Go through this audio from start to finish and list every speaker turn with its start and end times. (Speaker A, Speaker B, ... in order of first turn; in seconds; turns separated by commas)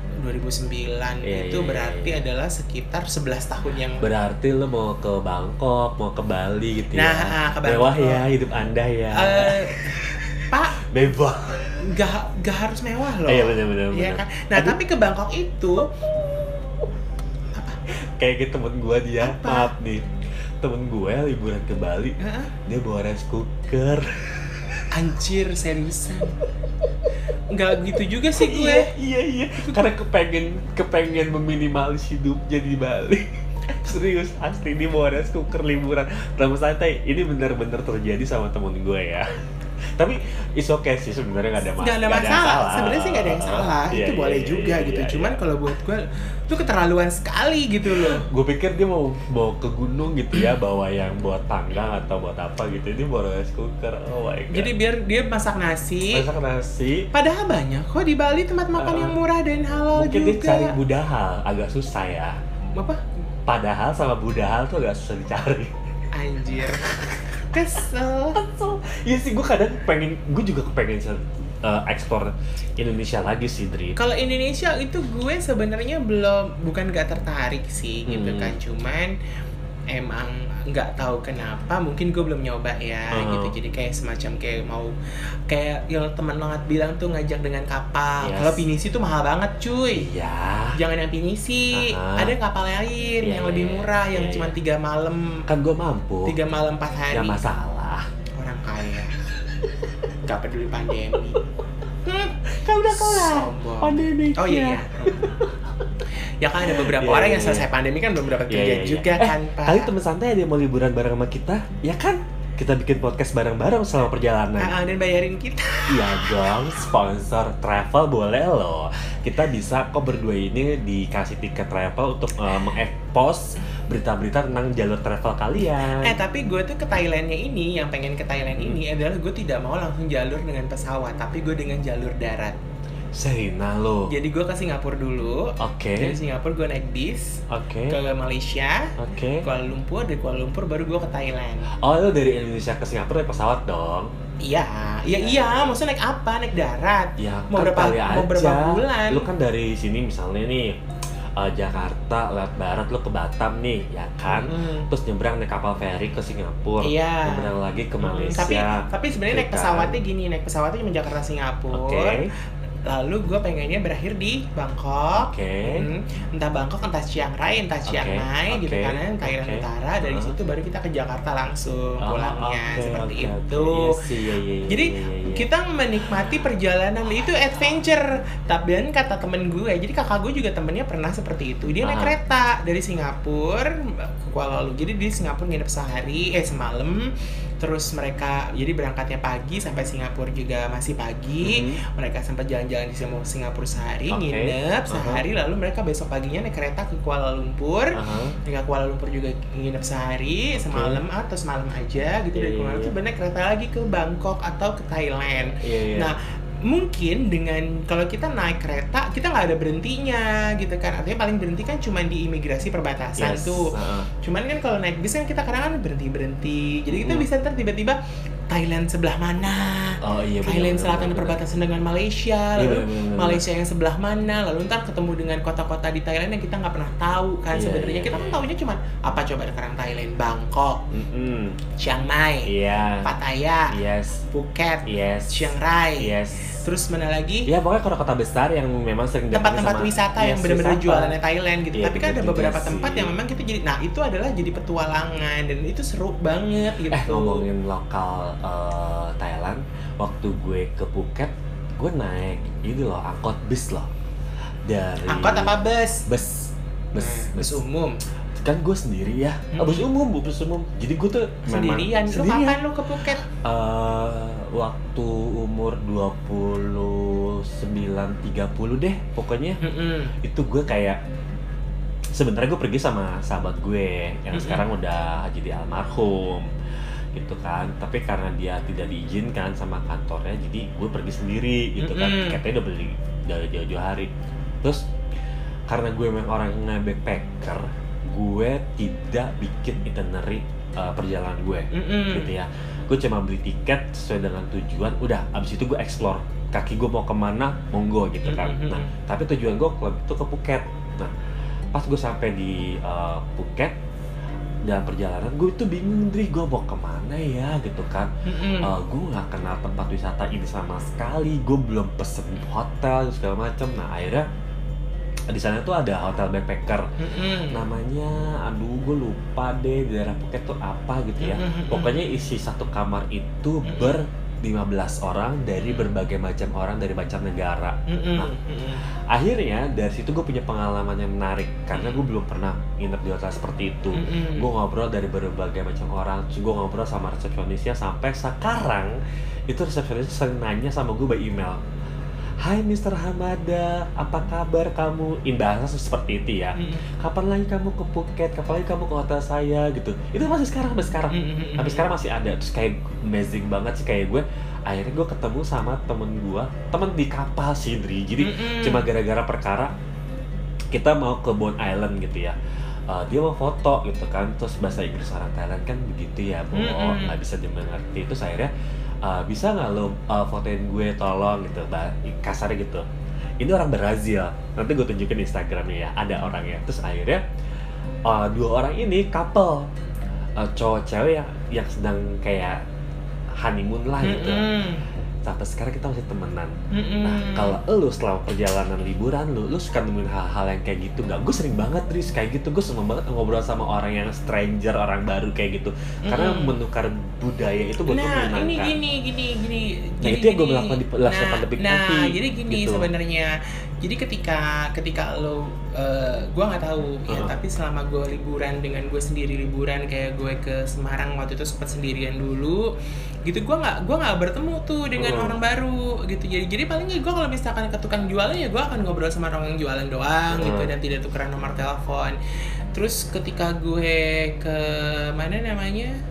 Speaker A: 0.2-4.1, Speaker B: 1.2-2.2, Speaker B: 4.0-11.8, Speaker A: 6.9-8.2, Speaker A: 9.2-9.9, Speaker A: 10.5-10.8, Speaker A: 11.8-15.9, Speaker B: 13.3-14.8, Speaker A: 17.5-17.8, Speaker B: 18.2-20.1, Speaker A: 19.2-19.7, Speaker B: 20.6-24.9, Speaker A: 22.2-22.5, Speaker A: 24.9-26.4, Speaker A: 27.5-28.9, Speaker B: 28.3-39.3, Speaker A: 29.6-29.9, Speaker B: 40.0-45.4, Speaker A: 41.8-48.2, Speaker B: 47.9-54.7, Speaker A: 54.5-56.3, Speaker B: 56.1-57.1, Speaker A: 57.1-60.7, Speaker B: 58.8-59.2, Speaker B: 59.9-62.4, Speaker A: 62.8-63.0, Speaker B: 63.5-65.7, Speaker A: 66.1-68.4, Speaker B: 68.3-74.0, Speaker A: 74.0-79.1, Speaker B: 78.1-78.6, Speaker A: 79.9-84.9, Speaker B: 83.1-83.5, Speaker A: 85.5-90.1, Speaker B: 88.2-88.7, Speaker B: 89.9-90.8, Speaker A: 90.8-95.5, Speaker B: 91.7-92.3, Speaker B: 93.2-94.5, Speaker B: 95.5-96.4, Speaker A: 96.2-97.4, Speaker B: 97.1-98.1, Speaker A: 98.4-99.1, Speaker B: 99.5-100.0, Speaker A: 100.2-101.4, Speaker A: 102.0-105.4, Speaker B: 102.5-105.9, Speaker A: 106.4-109.9, Speaker B: 106.6-107.7, Speaker B: 108.5-114.8, Speaker A: 114.6-116.8, Speaker B: 115.9-126.2, Speaker A: 125.6-132.6, Speaker B: 128.6-128.8, Speaker B: 133.1-134.1, Speaker A: 134.1-141.7, Speaker B: 135.6-136.2, Speaker B: 137.5-138.0, Speaker B: 139.0-139.5, Speaker B: 141.8-144.1, Speaker A: 144.4-149.3, Speaker B: 145.1-145.8, Speaker B: 147.2-150.8, Speaker B: 151.4-160.0, Speaker A: 154.3-154.9, Speaker A: 156.8-157.5, Speaker A: 158.0-162.2, Speaker B: 161.7-162.3, Speaker A: 162.9-174.0, Speaker B: 165.2-165.8, Speaker B: 167.9-170.3, Speaker B: 172.0-175.5, Speaker A: 174.7-187.0, Speaker B: 181.8-182.2, Speaker A: 187.6-218.0, Speaker B: 191.4-191.8, Speaker B: 194.1-195.2, Speaker B: 197.9-198.4, Speaker B: 200.6-201.0, Speaker B: 202.4-202.9, Speaker B: 205.6-206.1, Speaker B: 213.2-214.1, Speaker B: 216.9-217.3, Speaker A: 218.5-230.8, Speaker B: 220.0-221.4, Speaker B: 222.6-223.4, Speaker B: 227.5-228.5, Speaker B: 230.9-231.6, Speaker A: 231.8-232.5, Speaker B: 232.5-233.1, Speaker A: 233.0-233.7, Speaker B: 233.7-234.2, Speaker A: 234.3-237.5, Speaker B: 234.9-236.6, Speaker B: 237.5-241.2, Speaker A: 239.3-247.4, Speaker B: 241.7-243.2, Speaker B: 246.9-253.9, Speaker B: 254.7-257.6, Speaker A: 255.1-256.1, Speaker A: 256.9-257.9, Speaker B: 258.4-262.6, Speaker A: 259.5-259.9, Speaker A: 261.5-263.2, Speaker B: 263.3-269.6, Speaker A: 269.6-270.1, Speaker B: 270.2-271.0, Speaker B: 272.1-276.5, Speaker A: 274.3-274.6, Speaker B: 277.1-284.1, Speaker A: 281.8-282.4, Speaker B: 285.7-301.1, Speaker A: 291.7-292.3, Speaker A: 298.2-298.9, Speaker B: 301.7-303.8, Speaker B: 304.6-314.3, Speaker A: 308.3-308.7, Speaker B: 315.3-328.3, Speaker A: 317.0-317.6, Speaker A: 321.2-322.0, Speaker A: 323.6-324.1, Speaker A: 327.9-328.8, Speaker B: 329.1-339.0, Speaker A: 331.7-332.0, Speaker A: 333.9-334.5, Speaker B: 339.5-341.6, Speaker B: 342.4-359.7, Speaker A: 346.6-346.9, Speaker A: 351.1-351.9, Speaker A: 358.2-358.9, Speaker B: 360.7-362.4, Speaker B: 362.9-368.5, Speaker A: 366.5-367.2, Speaker B: 369.0-372.9, Speaker B: 373.4-377.2, Speaker B: 378.1-379.7, Speaker B: 380.4-382.6, Speaker B: 383.4-384.5, Speaker A: 384.0-384.8, Speaker B: 385.2-398.8, Speaker A: 386.7-387.6, Speaker A: 396.1-396.5, Speaker A: 397.9-412.7, Speaker B: 400.0-402.9, Speaker B: 407.1-407.3, Speaker A: 413.3-422.2, Speaker B: 415.0-415.4, Speaker B: 420.3-420.7, Speaker A: 422.8-425.9